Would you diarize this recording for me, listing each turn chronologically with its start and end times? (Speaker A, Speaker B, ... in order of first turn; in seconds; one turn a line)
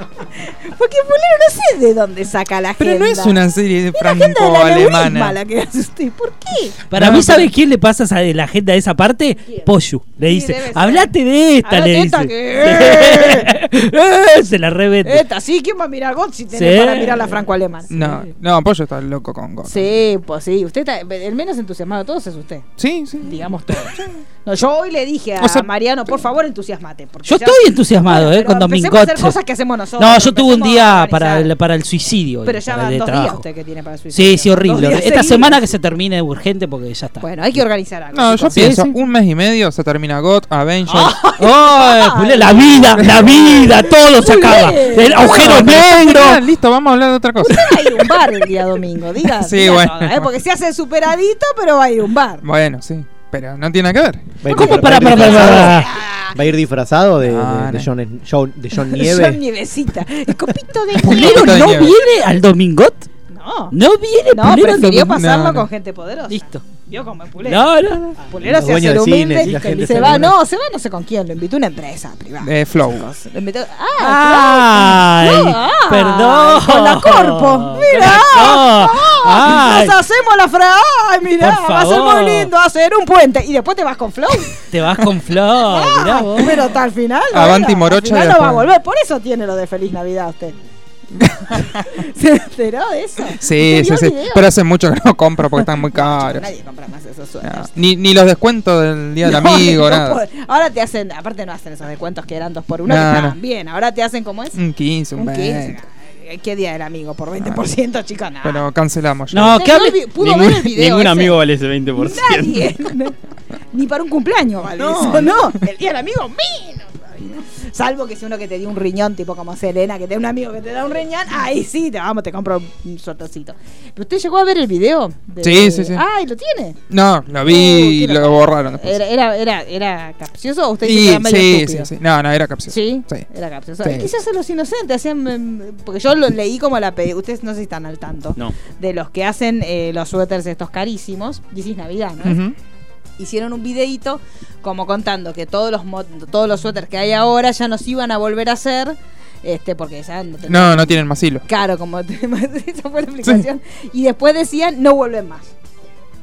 Speaker A: 0.4-6.8
Speaker B: 2.8-5.4
Speaker C: 6.9-15.2
Speaker B: 6.9-7.5
Speaker A: 10.2-11.1
Speaker A: 11.6-13.5
Speaker A: 15.0-18.0
Speaker C: 16.5-17.5
Speaker B: 17.9-19.9
Speaker A: 19.6-22.6
Speaker B: 22.8-24.1
Speaker A: 23.2-31.5
Speaker B: 25.4-25.7
Speaker C: 27.2-29.4
Speaker C: 30.0-33.4
Speaker A: 32.4-35.6
Speaker C: 34.1-37.6
Speaker A: 37.2-38.6
Speaker B: 38.1-41.2
Speaker C: 38.5-38.9
Speaker A: 40.9-45.9
Speaker C: 41.4-46.4
Speaker B: 43.0-43.3
Speaker B: 45.3-47.7
Speaker A: 47.4-52.4
Speaker B: 49.3-50.3
Speaker B: 52.4-54.4
Speaker D: 54.4-59.4
Speaker A: 54.5-56.4
Speaker C: 54.5-55.9
Speaker B: 57.2-57.9
Speaker A: 58.7-62.0
Speaker B: 61.0-62.0
Speaker C: 61.0-63.1
Speaker A: 63.3-63.8
Speaker C: 63.7-65.1
Speaker A: 64.3-67.7
Speaker B: 64.9-65.7
Speaker C: 66.3-66.6
Speaker C: 67.4-68.2
Speaker A: 68.3-84.6
Speaker D: 68.3-70.3
Speaker C: 69.7-70.3
Speaker B: 72.4-73.1
Speaker C: 74.0-80.0
Speaker C: 81.4-82.5
Speaker C: 84.7-86.6
Speaker A: 85.6-90.6
Speaker B: 87.3-88.7
Speaker B: 91.2-91.8
Speaker A: 91.5-94.5
Speaker B: 93.4-96.5
Speaker A: 95.5-97.7
Speaker B: 97.4-100.2
Speaker A: 99.2-104.6
Speaker B: 102.8-103.4
Speaker B: 104.5-105.8
Speaker A: 105.1-108.6
Speaker B: 108.4-109.7
Speaker C: 109.3-110.0
Speaker A: 109.5-111.4
Speaker E: 110.2-112.7
Speaker A: 112.0-113.2
Speaker A: 113.7-126.8
Speaker E: 114.8-115.4
Speaker B: 125.4-126.0
Speaker B: 126.9-129.0
Speaker A: 127.4-131.9
Speaker B: 130.8-133.3
Speaker A: 132.7-142.4
Speaker B: 133.8-134.1
Speaker B: 142.2-142.5
Speaker A: 143.2-155.5
Speaker B: 150.5-151.4